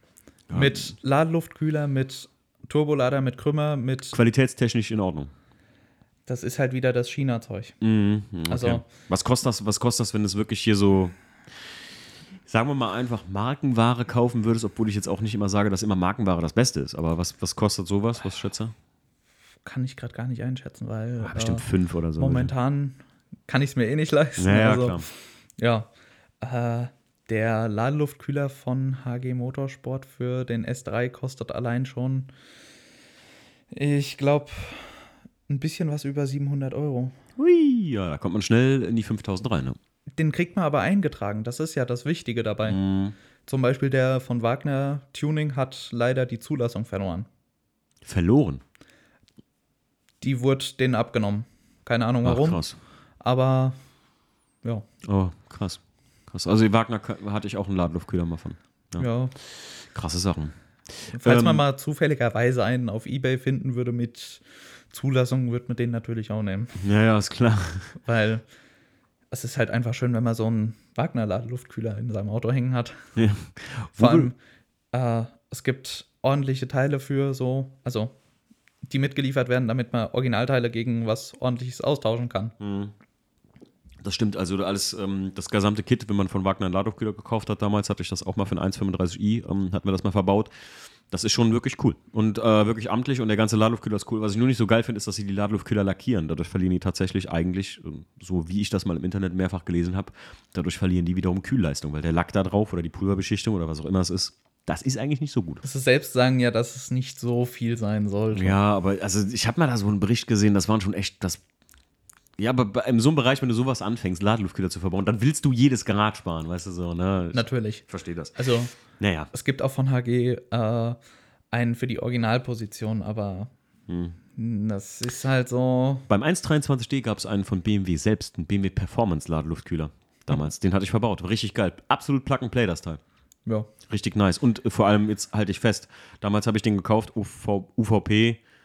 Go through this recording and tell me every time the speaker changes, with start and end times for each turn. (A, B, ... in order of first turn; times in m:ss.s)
0:00.5-0:00.9 A
0:00.5-0:04.2 B
0:04.1-0:05.3 A
0:06.3-0:07.8 B
0:07.8-0:11.7 A
0:08.5-0:08.8 B
0:12.5-0:18.7 A
0:19.6-0:21.7 B
0:21.2-0:22.5 A
0:22.2-0:25.9 B
0:24.4-0:25.1 A
0:26.4-0:32.3 B
0:33.7-0:37.2 B
0:37.4-0:39.8 A
0:40.2-0:42.8 B
0:42.7-0:43.2 A
0:43.5-0:47.3 B
0:48.0-0:48.6 A
0:50.2-0:52.6 B
0:52.2-0:52.8 A
0:53.2-0:53.8 B
0:55.0-0:59.1 A
0:59.0-0:59.3 B
0:59.8-1:00.6 A
1:01.1-1:01.6 A
1:01.1-1:06.8 B
1:06.8-1:07.9 A
1:08.0-1:08.4 B
1:09.3-1:13.0 B
1:13.2-1:14.3 A
1:14.0-1:14.4 B
1:14.9-1:18.2 B
1:18.8-1:22.6 B
1:22.6-1:22.9 A
1:24.0-1:30.5 A
1:31.1-1:45.6 A
1:45.6-1:48.6 B
1:48.3-1:51.4 A
1:52.4-1:59.3 A
1:57.3-1:58.8 B
1:59.3-2:01.0 B
2:01.5-2:03.5 B
2:03.9-2:04.2 A
2:04.4-2:06.1 B
2:06.1-2:13.0 A
2:13.5-2:13.7 B
2:13.9-2:18.4 A